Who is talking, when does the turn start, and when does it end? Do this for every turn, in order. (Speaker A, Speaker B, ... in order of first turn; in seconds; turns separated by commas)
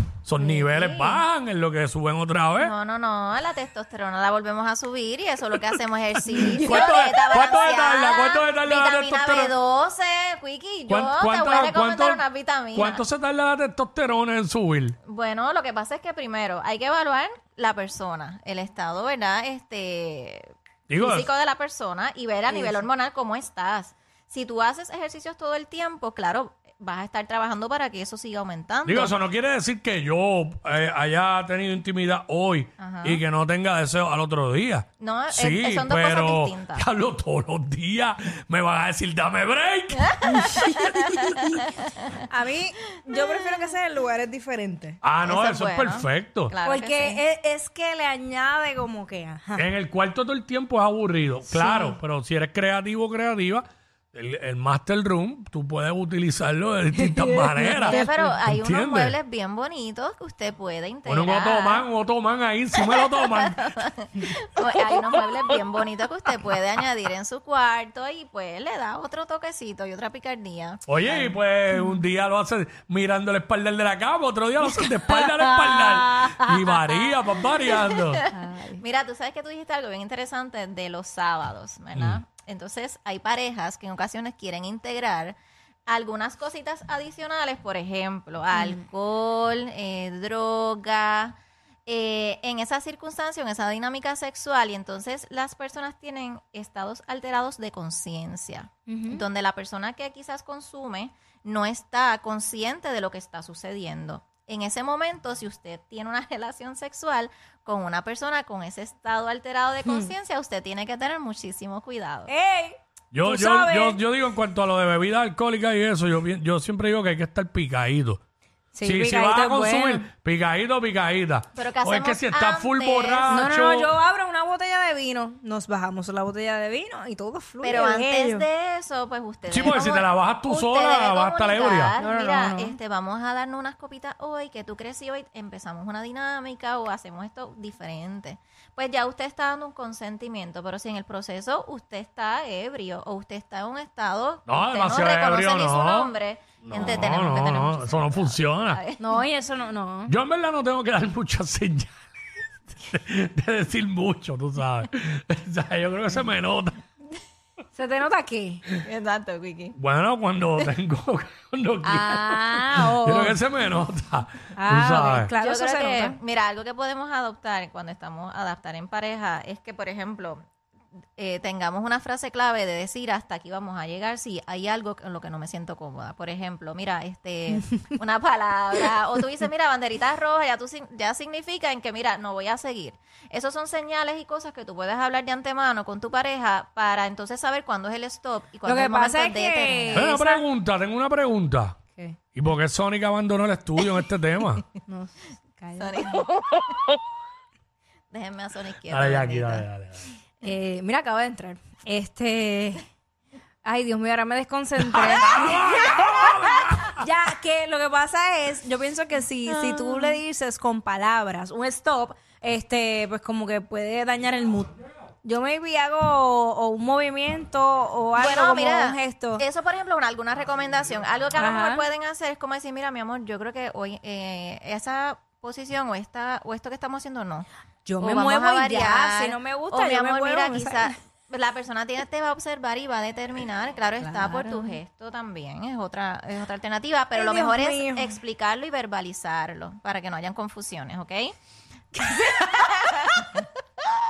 Speaker A: 0.2-2.7, Speaker B: 0.4-1.2, Speaker B: 2.6-13.0, Speaker A: 6.6-9.5, Speaker A: 10.9-12.2, Speaker A: 12.7-15.0, Speaker B: 15.0-29.2, Speaker A: 20.9-21.3, Speaker C: 22.5-22.9, Speaker A: 28.9-41.6, Speaker B: 32.8-33.2, Speaker B: 35.0-36.9, Speaker B: 40.0-42.1, Speaker C: 42.3-45.0, Speaker B: 43.1-43.7, Speaker A: 45.0-46.5, Speaker B: 45.2-47.2, Speaker C: 46.6-49.7, Speaker A: 49.6-59.2, Speaker C: 51.5-52.0, Speaker B: 57.3-61.9, Speaker C: 57.7-58.1, Speaker A: 61.1-63.8, Speaker B: 62.8-71.4, Speaker A: 70.9-78.2, Speaker C: 71.7-72.0, Speaker C: 74.7-76.8, Speaker B: 77.8-78.3, Speaker C: 78.3-78.8, Speaker B: 78.8-112.3, Speaker A: 82.0-82.2, Speaker C: 88.5-88.8, Speaker C: 98.9-99.2, Speaker C: 109.8-110.1, Speaker C: 112.3-114.0, Speaker A: 113.1-118.2, Speaker C: 118.8-120.1, Speaker A: 118.8-123.9, Speaker B: 121.5-123.5, Speaker C: 123.3-128.4, Speaker B: 127.6-149.2, Speaker A: 129.5-131.9, Speaker C: 132.0-132.8, Speaker A: 144.5-146.1, Speaker A: 146.6-148.8, Speaker C: 149.0-150.1, Speaker A: 150.1-152.0, Speaker A: 152.7-156.8, Speaker C: 157.7-158.7, Speaker B: 158.8-159.8, Speaker A: 159.8-165.3, Speaker C: 161.8-163.4, Speaker C: 164.6-166.2, Speaker B: 165.3-170.4, Speaker B: 171.2-190.1, Speaker C: 188.6-190.4, Speaker A: 189.9-191.8, Speaker A: 192.3-194.7, Speaker C: 194.9-196.4, Speaker B: 195.8-196.3, Speaker B: 198.1-199.7, Speaker A: 198.9-200.1, Speaker C: 200.4-202.9, Speaker C: 203.6-206.3, Speaker A: 204.8-207.1, Speaker C: 207.0-219.4, Speaker B: 209.5-210.2, Speaker B: 218.2-227.5, Speaker C: 221.4-221.8, Speaker C: 227.9-230.9, Speaker B: 228.0-241.3, Speaker C: 234.0-234.8, Speaker C: 237.2-238.2, Speaker C: 242.0-243.2, Speaker B: 242.1-242.8